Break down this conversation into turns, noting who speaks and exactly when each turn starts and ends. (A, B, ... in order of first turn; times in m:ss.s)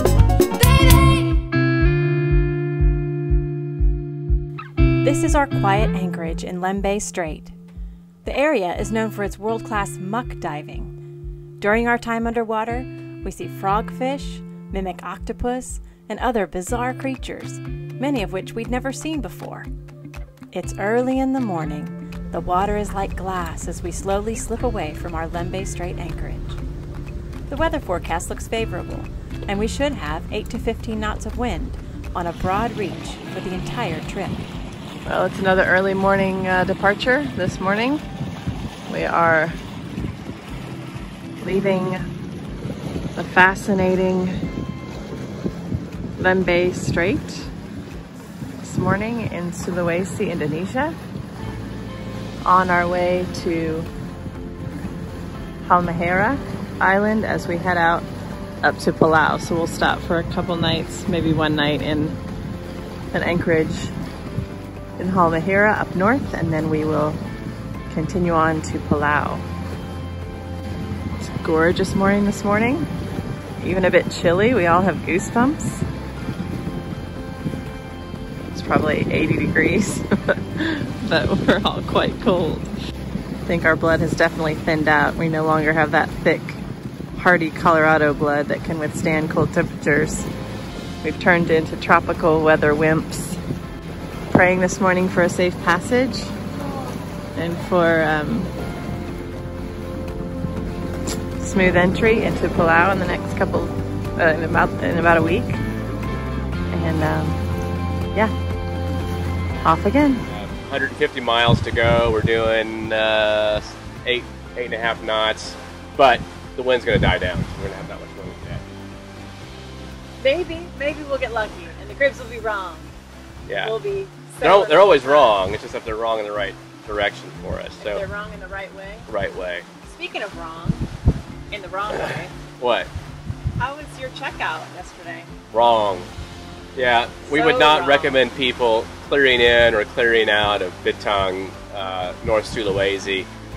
0:05.0-0:07.5 A
0:08.2-0:10.9 A
0:11.6-0:19.7 A
0:20.5-0:26.6 A
0:27.5-0:34.4 A
0:35.0-0:38.0 B
0:38.9-0:39.6 B
0:41.4-0:42.0 B
0:43.2-0:44.3 B
0:46.2-0:47.5 B
0:48.6-0:50.9 B
0:52.4-0:53.9 B
0:55.6-0:58.1 B
0:58.6-1:02.2 B
1:03.1-1:03.9 B
1:05.0-1:07.2 B
1:07.9-1:09.4 B
1:11.2-1:12.9 B
1:13.6-1:15.8 B
1:18.5-1:22.7 B
1:23.4-1:26.6 B
1:27.1-1:30.3 B
1:31.0-1:33.4 B
1:34.3-1:36.3 B
1:37.3-1:38.5 B
1:41.4-1:45.6 B
1:46.7-1:47.4 B
1:49.6-1:50.2 B
1:50.3-1:58.6 C
2:00.2-2:02.9 D
2:03.5-2:03.7 C
2:03.6-2:05.4 D
2:04.4-2:08.1 C
2:07.8-2:09.1 D
2:09.1-2:09.6 C
2:09.9-2:10.9 D
2:11.5-2:12.4 D
2:12.6-2:12.9 C
2:13.6-2:15.3 D
2:15.5-2:16.1 C
2:16.8-2:23.3 C
2:17.2-2:18.2 D